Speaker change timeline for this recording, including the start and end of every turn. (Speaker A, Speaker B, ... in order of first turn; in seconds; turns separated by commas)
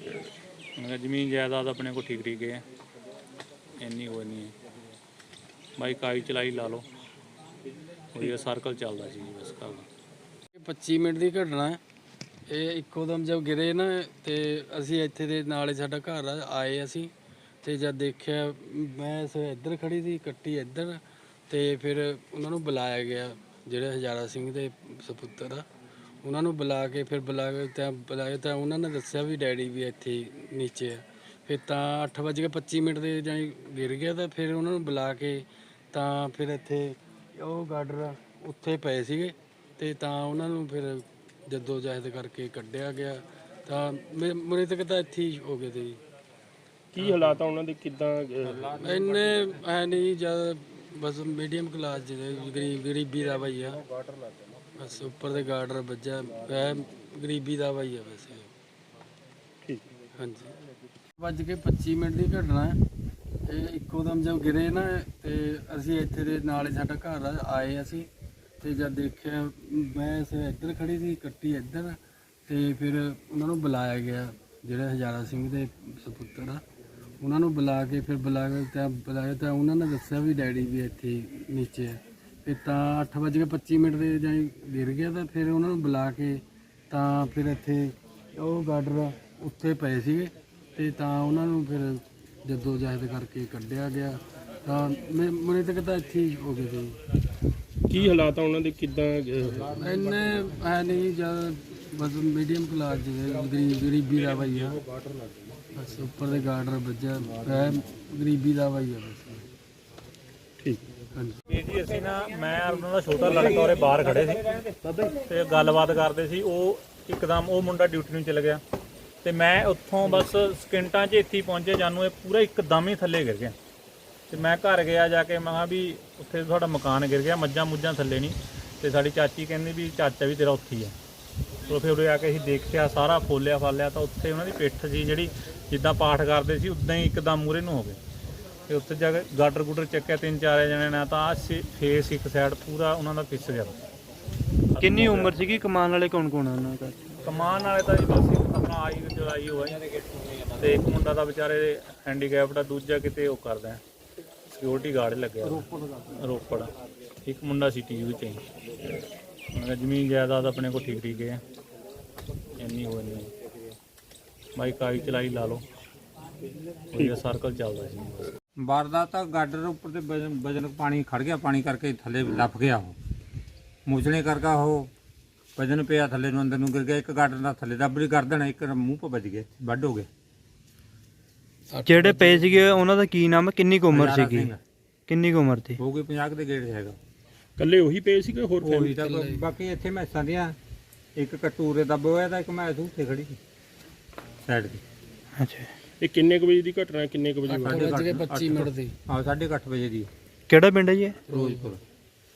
Speaker A: 0.8-2.6, Speaker A: 3.8-4.5, Speaker A: 5.8-6.8, Speaker A: 8.2-9.9, Speaker B: 10.5-11.8, Speaker B: 12.5-17.1, Speaker B: 17.6-25.7, Speaker B: 26.2-46.0, Speaker C: 46.9-48.6, Speaker D: 48.6-49.5, Speaker B: 48.7-53.8, Speaker B: 54.8-58.5, Speaker B: 60.2-60.6, Speaker B: 61.2-62.8, Speaker B: 63.5-68.1, Speaker B: 68.6-76.6, Speaker B: 77.2-97.0, Speaker C: 97.9-99.6, Speaker B: 99.6-104.8, Speaker B: 105.8-109.5, Speaker B: 111.2-111.4, Speaker A: 111.5-114.6, Speaker A: 115.2-118.6, Speaker A: 119.2-123.5, Speaker A: 124.3-130.9, Speaker A: 131.7-138.0, Speaker A: 138.7-143.8, Speaker A: 144.8-145.4, Speaker E: 144.8-147.0, Speaker A: 147.2-149.8, Speaker A: 150.6-153.8, Speaker A: 154.5-156.7, Speaker A: 157.3-158.4, Speaker A: 159.5-161.4, Speaker A: 162.6-163.3, Speaker A: 164.6-165.6, Speaker A: 166.9-168.3, Speaker D: 168.6-173.0, Speaker D: 173.9-174.9, Speaker D: 175.6-180.1, Speaker B: 181.7-182.8, Speaker E: 181.9-184.5, Speaker D: 183.9-184.6, Speaker E: 185.1-185.8, Speaker D: 185.8-187.0, Speaker C: 187.6-189.0, Speaker D: 188.6-190.6, Speaker B: 189.0-189.5, Speaker D: 191.2-193.4, Speaker D: 194.4-194.8, Speaker E: 195.4-195.7, Speaker C: 196.0-197.8, Speaker B: 197.5-198.9, Speaker D: 197.7-200.1, Speaker E: 200.5-201.2, Speaker D: 201.3-201.8, Speaker B: 201.3-201.7